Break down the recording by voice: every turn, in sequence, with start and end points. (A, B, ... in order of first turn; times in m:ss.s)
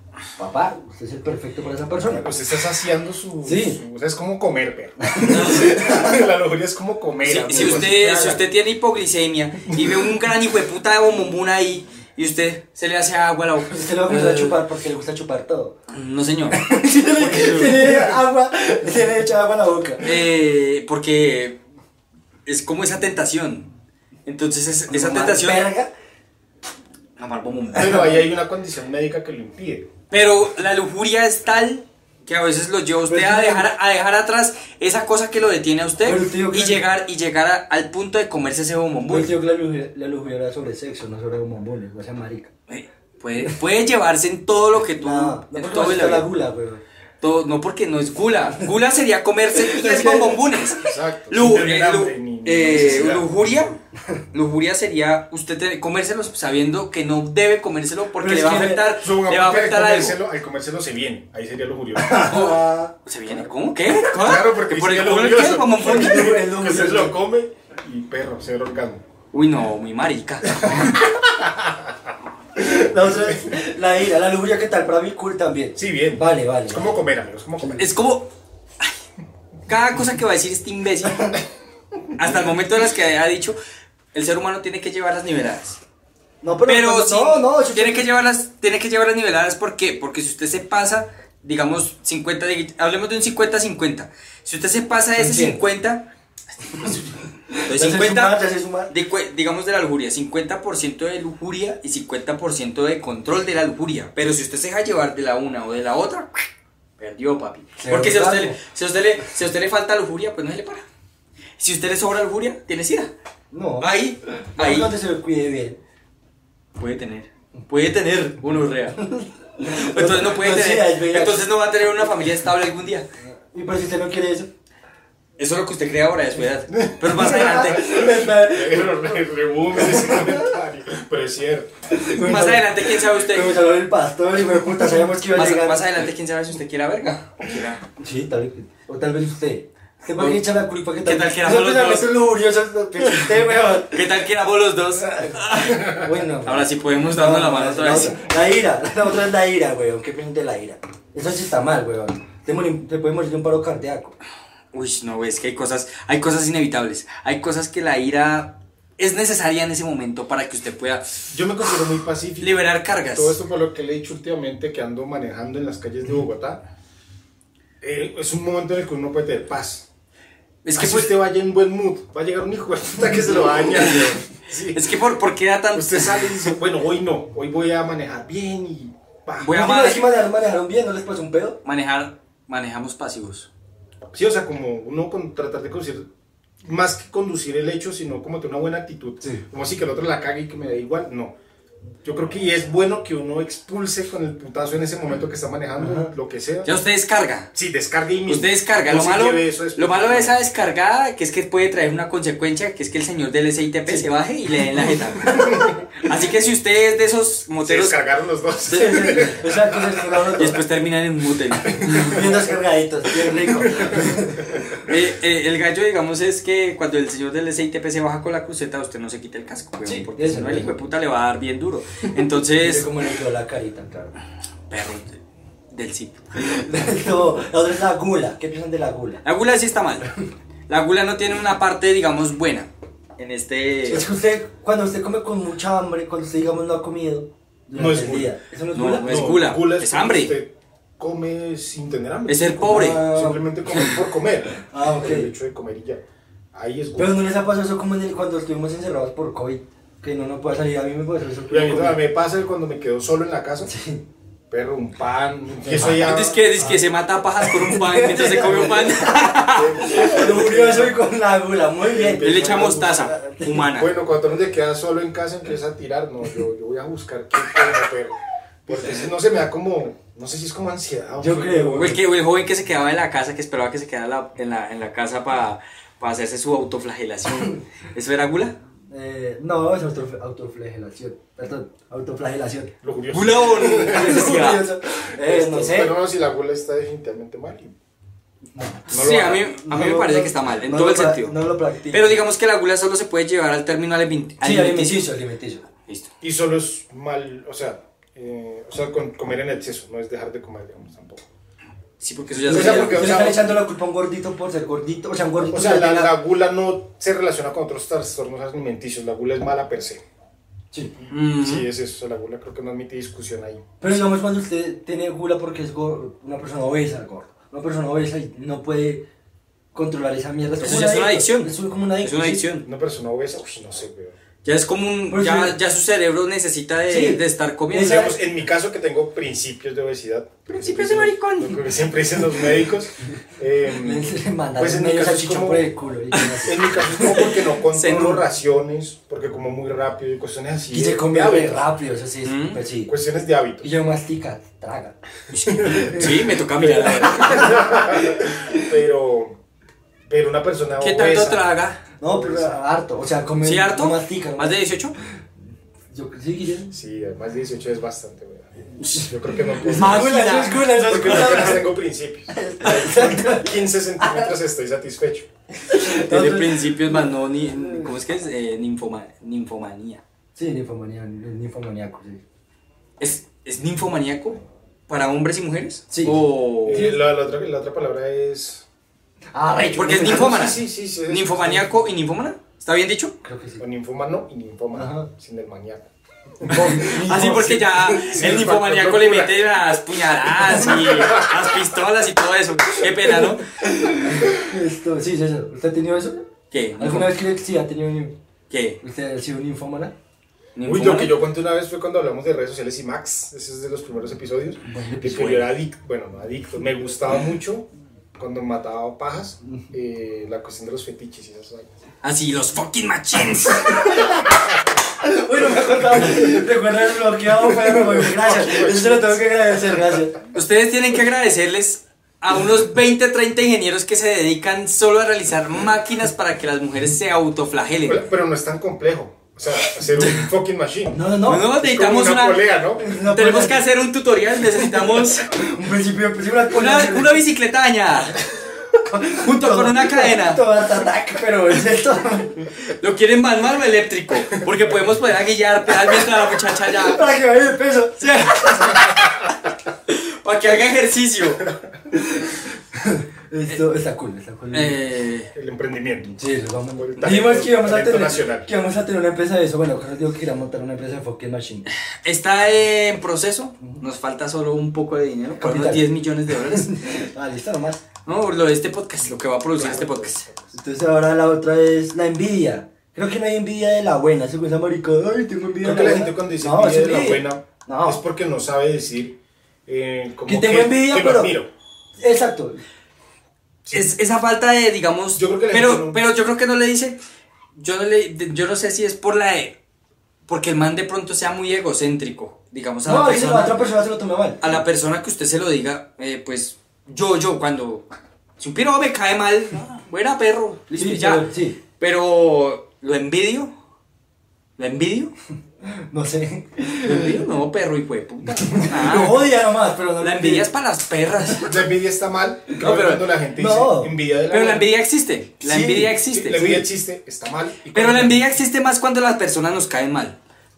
0:00.4-0:02.3 A
0:02.0-0:08.4 B
0:03.4-0:03.8 A
0:05.0-0:06.3 A
0:05.3-0:05.8 C
0:07.2-0:14.6 C
0:07.6-0:08.4 A
0:13.7-0:15.7 A
0:15.9-0:18.0 C
0:16.5-0:20.2 A
0:20.0-0:21.6 C
0:22.4-0:23.7 C
0:24.2-0:25.7 C
0:24.9-0:25.9 A
0:27.2-0:28.1 C
0:27.7-0:29.9 B
0:27.8-0:28.2 A
0:30.1-0:39.3 C
0:33.1-0:33.7 A
0:36.0-0:36.8 A
0:39.1-0:42.5 A
0:42.7-0:46.3 C
0:45.0-0:46.8 A
0:47.2-0:53.8 C
0:49.6-0:50.4 A
0:50.8-0:53.3 B
0:54.3-1:00.2 C
0:58.2-0:58.9 A
0:59.0-1:02.4 B
1:02.0-1:02.9 A
1:02.1-1:06.4 C
1:04.1-1:09.0 B
1:05.8-1:07.2 A
1:09.3-1:10.9 C
1:10.6-1:11.9 B
1:12.6-1:16.9 A
1:13.0-1:13.3 B
1:15.7-1:17.9 B
1:17.6-1:18.3 C
1:19.7-1:21.3 C
1:22.2-1:23.6 C
1:24.1-1:25.8 C
1:26.4-1:28.0 A
1:26.6-1:36.1 C
1:35.2-1:35.6 A
1:36.6-1:37.1 C
1:37.5-1:38.9 A
1:37.6-1:46.5 C
1:47.0-1:50.8 C
1:47.8-1:48.6 A
1:51.6-1:53.1 C
1:53.5-1:55.8 A
1:53.8-1:54.9 C
1:56.8-1:59.0 C
1:58.9-2:01.4 A
1:59.6-2:03.1 C
2:03.5-2:04.5 A
2:05.4-2:08.0 C
2:07.1-2:09.0 A
2:07.8-2:11.7 B
2:09.8-2:10.4 A
2:11.9-2:15.9 A
2:12.1-2:13.6 C
2:15.3-2:17.8 C
2:18.0-2:24.0 A
2:20.2-2:22.2 C
2:23.0-2:23.3 C
2:23.9-2:28.2 C
2:25.1-2:34.2 A
2:34.7-2:41.2 C
2:41.3-2:46.6 B
2:42.4-2:43.4 C
2:47.8-2:49.9 B
2:50.6-2:51.1 C
2:50.7-2:54.9 B
2:53.8-2:54.1 C
2:54.7-2:56.5 C
2:55.7-2:59.6 B
2:59.4-3:00.1 C
2:59.5-3:01.6 A
3:01.6-3:03.5 C
3:04.1-3:06.1 B
3:06.6-3:11.3 B
3:12.0-3:16.7 B
3:15.8-3:16.1 A
3:16.6-3:17.5 C
3:17.5-3:20.4 B
3:18.3-3:27.9 C
3:25.2-3:25.7 A
3:25.3-3:25.7 B
3:27.6-3:30.2 B
3:28.7-3:30.6 A
3:30.4-3:32.3 C
3:31.7-3:32.6 B
3:31.8-3:34.6 A
3:33.7-3:34.7 B
3:34.8-3:42.9 C
3:39.8-3:40.7 A
3:42.5-3:44.1 A
3:44.7-3:45.2 C
3:45.7-3:46.3 C
3:46.4-3:49.2 A
3:49.2-3:50.0 C
3:50.7-3:54.1 C
3:53.8-3:59.1 A
3:57.7-3:58.3 B
3:58.7-4:00.4 C
3:59.0-4:06.0 B
4:02.3-4:03.0 C
4:02.6-4:03.5 A
4:04.7-4:05.3 A
4:06.5-4:07.2 B
4:07.0-4:12.0 A
4:11.5-4:13.7 B
4:13.6-4:14.0 A
4:14.5-4:16.4 B
4:15.6-4:16.8 A
4:15.8-4:20.1 C
4:17.4-4:23.7 A
4:19.4-4:21.0 B
4:21.8-4:23.1 B
4:22.2-4:23.9 C
4:23.6-4:32.0 B
4:31.2-4:32.0 A
4:31.7-4:38.5 C
4:38.9-4:42.7 A
4:42.8-4:44.4 B
4:43.1-4:44.7 C
4:43.5-4:46.0 A
4:45.1-4:47.7 B
4:48.5-4:48.8 A
4:48.9-4:49.5 B
4:48.9-4:51.4 C
4:49.6-4:52.2 A
4:51.9-4:55.1 C
4:54.4-4:55.7 A
4:56.2-5:01.2 B
5:02.0-5:03.4 C
5:02.3-5:03.5 B
5:02.5-5:06.1 A
5:05.4-5:10.0 B
5:11.0-5:13.6 B
5:11.1-5:11.7 C
5:13.8-5:19.0 A
5:19.7-5:22.4 A
5:20.6-5:22.6 C
5:22.6-5:24.2 B
5:24.4-5:28.1 C
5:25.1-5:25.6 A
5:26.9-5:28.2 A
5:27.8-5:35.7 B
5:30.5-5:31.6 C
5:33.8-5:37.3 A
5:36.4-5:41.6 B
5:37.1-5:38.2 C
5:40.7-5:42.9 A
5:42.2-5:42.6 C
5:42.9-5:43.6 B
5:43.6-5:45.0 A
5:45.3-5:47.6 C
5:45.5-5:49.4 B
5:45.6-5:46.2 A
5:47.0-5:48.6 A
5:50.1-5:51.4 B
5:50.8-5:51.8 C
5:52.0-5:54.6 A
5:52.0-5:52.6 B
5:53.4-5:54.9 C
5:55.9-5:56.7 A
5:56.7-6:05.3 B
5:58.8-5:59.1 C
5:59.6-6:01.7 A
5:59.6-6:01.4 C
6:02.3-6:04.3 A
6:05.6-6:06.7 A
6:05.8-6:10.0 C
6:10.4-6:12.2 A
6:13.0-6:16.9 C
6:15.9-6:17.0 A
6:16.6-6:18.6 B
6:19.3-6:20.5 A
6:19.7-6:23.1 C
6:19.9-6:21.7 B
6:23.2-6:23.6 A
6:23.6-6:29.5 B
6:24.7-6:25.1 A
6:26.5-6:27.6 A
6:26.5-6:33.5 C
6:30.4-6:31.3 B
6:33.6-6:36.3 A
6:36.5-6:37.2 C
6:36.8-6:38.2 A
6:38.5-6:38.8 C
6:38.8-6:39.9 A
6:40.6-6:41.2 C
6:40.6-6:51.7 B
6:44.6-6:45.3 A
6:45.0-6:45.5 C
6:52.0-6:54.0 C
6:53.7-6:54.3 A
6:55.0-7:00.2 A
6:57.4-6:59.8 B
7:00.3-7:08.0 C
7:07.8-7:12.9 B
7:10.9-7:11.5 A
7:11.2-7:15.3 C
7:12.8-7:13.6 A
7:15.3-7:17.2 A
7:16.5-7:18.2 C
7:18.7-7:22.4 A
7:19.1-7:20.4 C
7:22.7-7:27.1 C
7:26.8-7:28.8 A
7:28.0-7:29.3 C
7:29.9-7:31.5 C
7:31.9-7:34.8 A
7:34.5-7:35.3 C
7:35.3-7:36.2 B
7:36.2-7:41.6 A
7:36.7-7:38.5 B
7:42.0-7:46.7 C
7:45.4-7:47.8 A
7:48.0-7:50.2 C
7:49.6-7:50.5 B
7:50.5-7:58.0 A
7:55.6-8:01.5 B
8:00.2-8:01.4 A
8:02.0-8:02.6 A
8:03.6-8:03.9 B
8:03.7-8:07.0 C
8:05.1-8:06.0 B
8:07.6-8:09.6 C
8:10.3-8:13.6 C
8:12.8-8:14.5 A
8:14.4-8:17.8 C
8:18.4-8:21.2 C
8:20.7-8:21.6 A
8:21.8-8:23.5 C
8:24.6-8:25.1 C
8:25.6-8:27.2 A
8:26.8-8:29.3 C
8:28.4-8:30.5 A
8:30.0-8:31.6 C
8:31.4-8:34.7 B
8:32.6-8:33.1 C
8:33.4-8:33.9 A
8:34.3-8:36.6 C
8:35.4-8:36.0 A
8:36.1-8:38.2 B
8:37.7-8:40.2 C